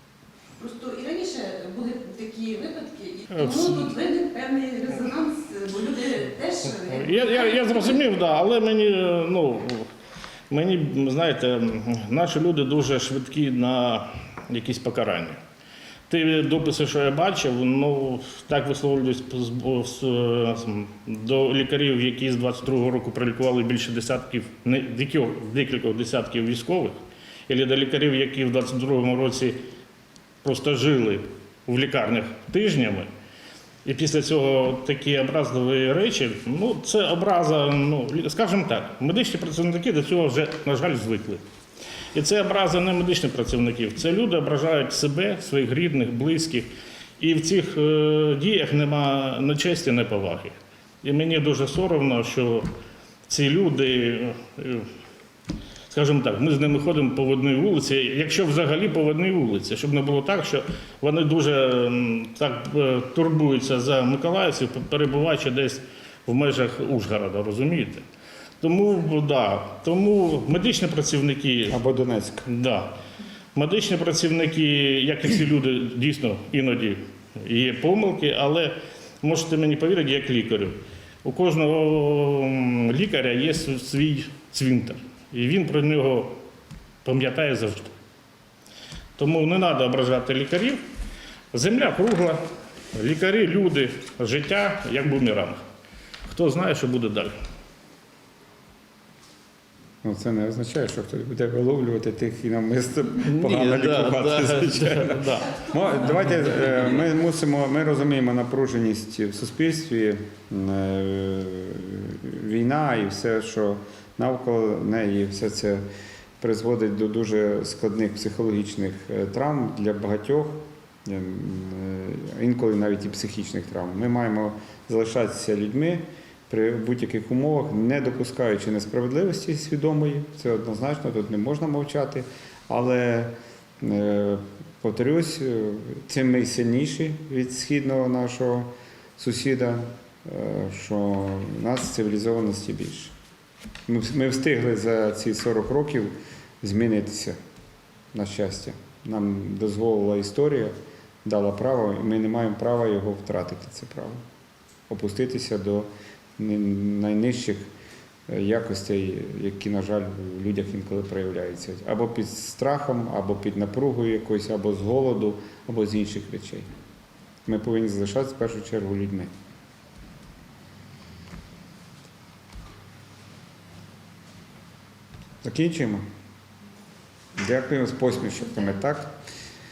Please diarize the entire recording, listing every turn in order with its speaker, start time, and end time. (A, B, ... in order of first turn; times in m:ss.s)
0:00.6-0:08.0 A
0:03.3-0:03.9 B
0:06.8-0:09.9 B
0:10.5-0:15.4 B
0:16.1-0:27.0 B
0:27.5-0:29.6 B
0:30.4-0:33.1 B
0:33.8-0:41.4 B
0:42.1-0:52.7 B
0:53.3-0:54.9 B
0:55.9-1:08.0 B
1:08.6-1:11.8 B
1:11.7-1:12.4 C
1:12.4-1:13.0 B
1:13.5-1:26.4 B
1:27.0-1:27.9 B
1:29.2-1:30.8 B
1:31.5-1:32.4 B
1:32.9-1:35.6 B
1:36.3-1:37.3 B
1:40.0-1:55.8 C
1:43.2-1:46.9 B
1:56.4-2:23.1 C
2:23.9-2:27.4 C
2:28.1-2:34.2 C
2:34.9-2:37.7 C
2:38.3-2:46.7 C
2:47.4-2:49.3 C
2:55.4-2:56.0 C
2:57.3-2:59.1 C